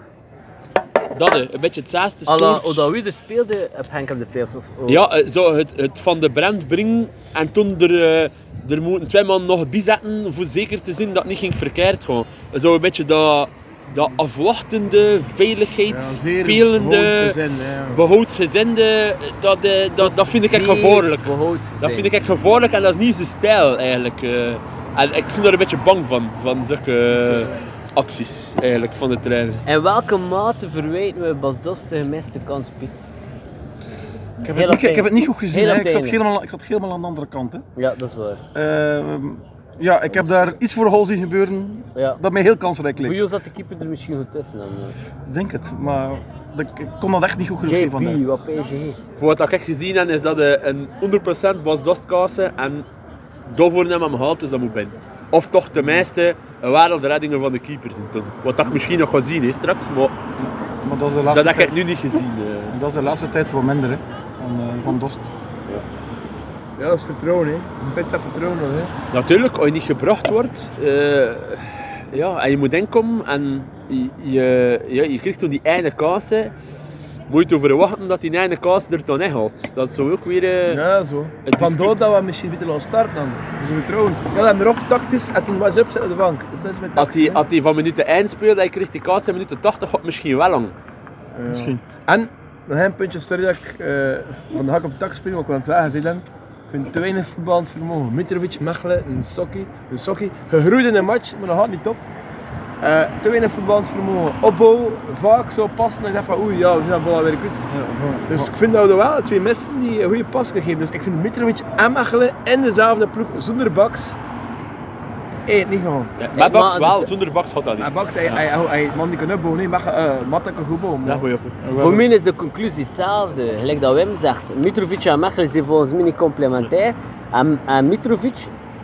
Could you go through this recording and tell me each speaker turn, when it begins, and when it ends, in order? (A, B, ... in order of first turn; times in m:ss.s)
0:01.1-0:02.9 A
0:02.3-0:05.0 B
0:04.9-0:17.4 A
0:15.9-0:18.0 C
0:17.9-0:29.6 A
0:20.0-0:22.1 B
0:29.7-0:33.0 B
0:34.4-0:37.6 D
0:34.5-0:36.2 B
0:37.8-0:38.4 B
0:38.5-0:43.2 D
0:43.0-0:45.0 B
0:45.2-0:48.2 D
0:47.6-0:49.0 B
0:49.2-0:52.9 A
0:53.5-1:00.1 A
1:00.4-1:01.8 D
1:01.3-1:02.8 A
1:02.7-1:05.3 D
1:06.8-1:08.9 C
1:09.1-1:16.5 A
1:17.3-1:20.8 A
1:20.7-1:27.4 C
1:21.4-1:21.9 A
1:27.0-1:30.7 A
1:31.3-1:42.0 C
1:31.5-1:31.8 D
1:42.8-1:47.7 C
1:47.7-1:48.5 D
1:48.3-1:54.2 C
1:55.5-1:56.1 C
1:56.2-1:58.4 A
1:56.4-1:57.1 B
1:57.8-2:02.1 C
2:01.0-2:01.6 A
2:01.7-2:08.5 B